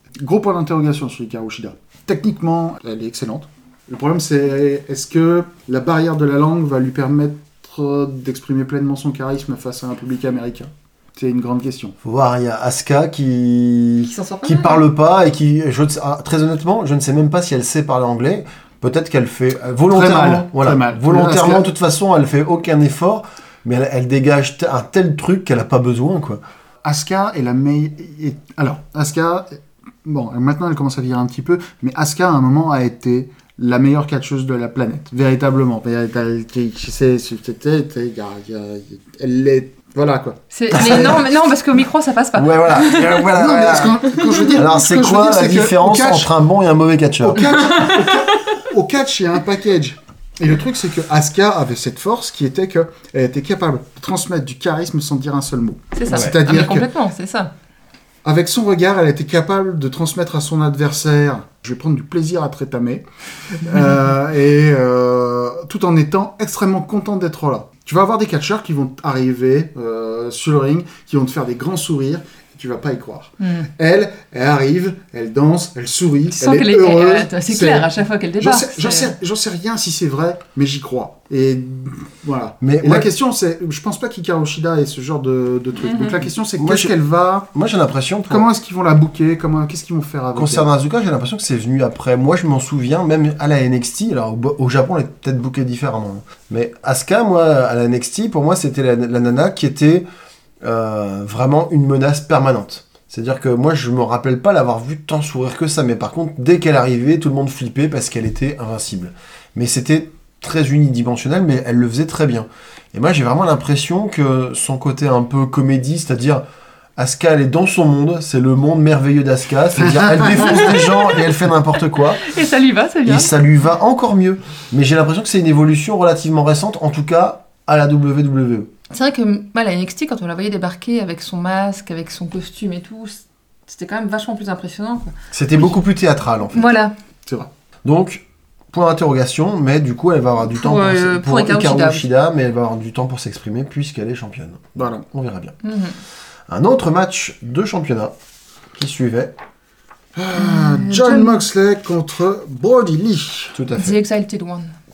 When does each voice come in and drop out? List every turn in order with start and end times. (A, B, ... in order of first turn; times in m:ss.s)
0:00.2-0:12.0 A
0:12.0-0:26.4 B
0:14.1-0:14.8 C
0:19.9-0:21.7 A
0:26.8-0:41.2 A
0:40.5-0:43.3 C
0:40.7-0:41.2 B
0:42.4-0:47.6 B
0:43.3-0:46.3 A
0:47.2-0:56.9 A
0:47.8-0:48.1 C
0:56.0-0:57.5 C
0:58.2-1:17.9 A
1:13.4-1:13.7 C
1:16.4-1:19.2 C
1:18.4-1:27.5 A
1:22.6-1:23.1 B
1:25.8-1:26.2 C
1:26.6-1:27.0 B
1:27.5-1:28.5 B
1:28.3-1:30.7 A
1:30.4-1:40.0 B
1:40.6-1:56.4 B
1:57.0-2:02.3 B
1:59.8-2:00.7 A
2:00.4-2:01.2 C
2:02.2-2:03.3 C
2:03.0-2:08.7 B
2:08.9-2:15.1 C
2:15.3-2:16.7 B
2:16.5-2:16.9 C
2:17.8-2:25.6 B
2:20.5-2:22.1 C
2:24.8-2:25.0 A
2:25.6-2:26.0 C
2:26.5-2:28.1 B
2:28.8-2:29.4 B
2:30.2-2:33.6 A
2:30.4-2:31.4 C
2:33.6-2:34.0 B
2:33.7-2:34.8 C